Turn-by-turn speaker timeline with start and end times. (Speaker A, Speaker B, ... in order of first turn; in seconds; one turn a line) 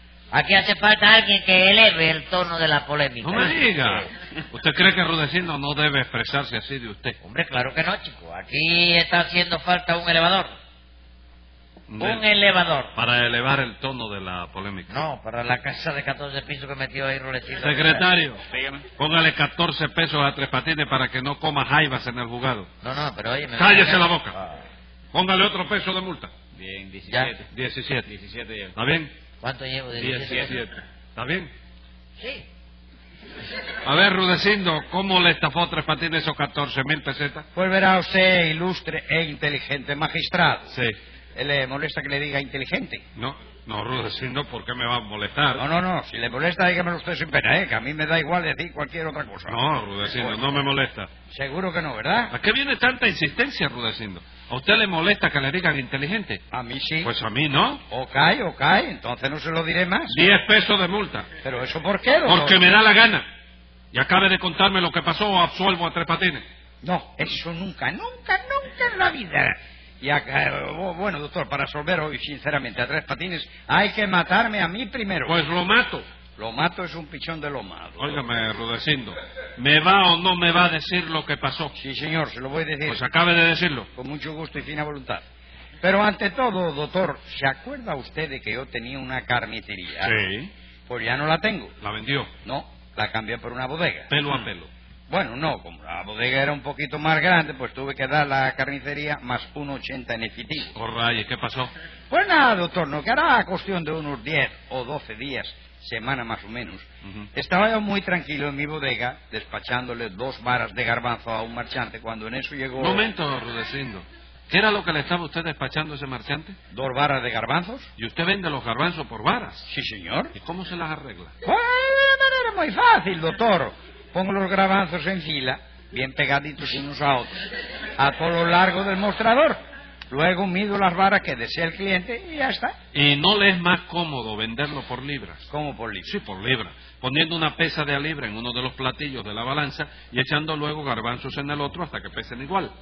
Speaker A: 0.3-3.7
Speaker B: 3.2-7.2
Speaker A: 7.2-10.6
Speaker B: 11.9-12.2
Speaker A: 12.0-12.9
Speaker B: 12.9-15.1
Speaker A: 14.9-18.1
Speaker B: 17.6-18.4
Speaker C: 18.5-18.9
Speaker B: 19.0-22.7
Speaker A: 22.8-24.6
Speaker B: 23.6-24.4
Speaker B: 25.1-26.3
Speaker C: 26.5-27.5
Speaker B: 27.5-28.1
Speaker C: 28.1-28.8
Speaker B: 28.8-29.1
Speaker A: 29.4-30.6
Speaker B: 30.0-31.5
Speaker A: 32.2-32.5
Speaker B: 33.8-37.4
Speaker D: 37.5-40.7
Speaker B: 40.7-41.0
Speaker D: 41.4-43.0
Speaker B: 43.2-45.6
Speaker D: 45.6-49.6
Speaker B: 49.5-51.1
Speaker D: 50.1-50.6
Speaker D: 51.3-52.3
Speaker B: 52.3-56.4
Speaker D: 56.5-57.1
Speaker B: 57.0-57.8
Speaker D: 57.9-60.2
Speaker B: 60.1-61.3
Speaker D: 61.4-62.7
Speaker B: 62.2-63.2
Speaker B: 63.9-66.4
Speaker D: 66.8-75.4
Speaker B: 75.2-76.1
Speaker D: 76.4-78.2
Speaker B: 78.0-81.8
Speaker D: 81.8-83.0
Speaker B: 82.8-83.9
Speaker D: 84.0-85.2
Speaker D: 85.8-90.1
Speaker B: 90.0-90.5
Speaker D: 90.9-91.7
Speaker B: 91.8-92.3
Speaker D: 92.4-94.1
Speaker B: 94.1-94.7
Speaker D: 95.1-100.7
Speaker B: 100.8-101.7
Speaker D: 102.1-113.1
Speaker B: 112.8-116.6
Speaker D: 116.7-117.9
Speaker B: 118.0-119.6
Speaker D: 119.7-120.3
Speaker B: 120.4-121.3
Speaker D: 121.4-127.4
Speaker D: 128.0-129.6
Speaker D: 130.1-132.8
Speaker B: 132.9-135.5
Speaker D: 135.5-136.1
Speaker B: 136.1-142.7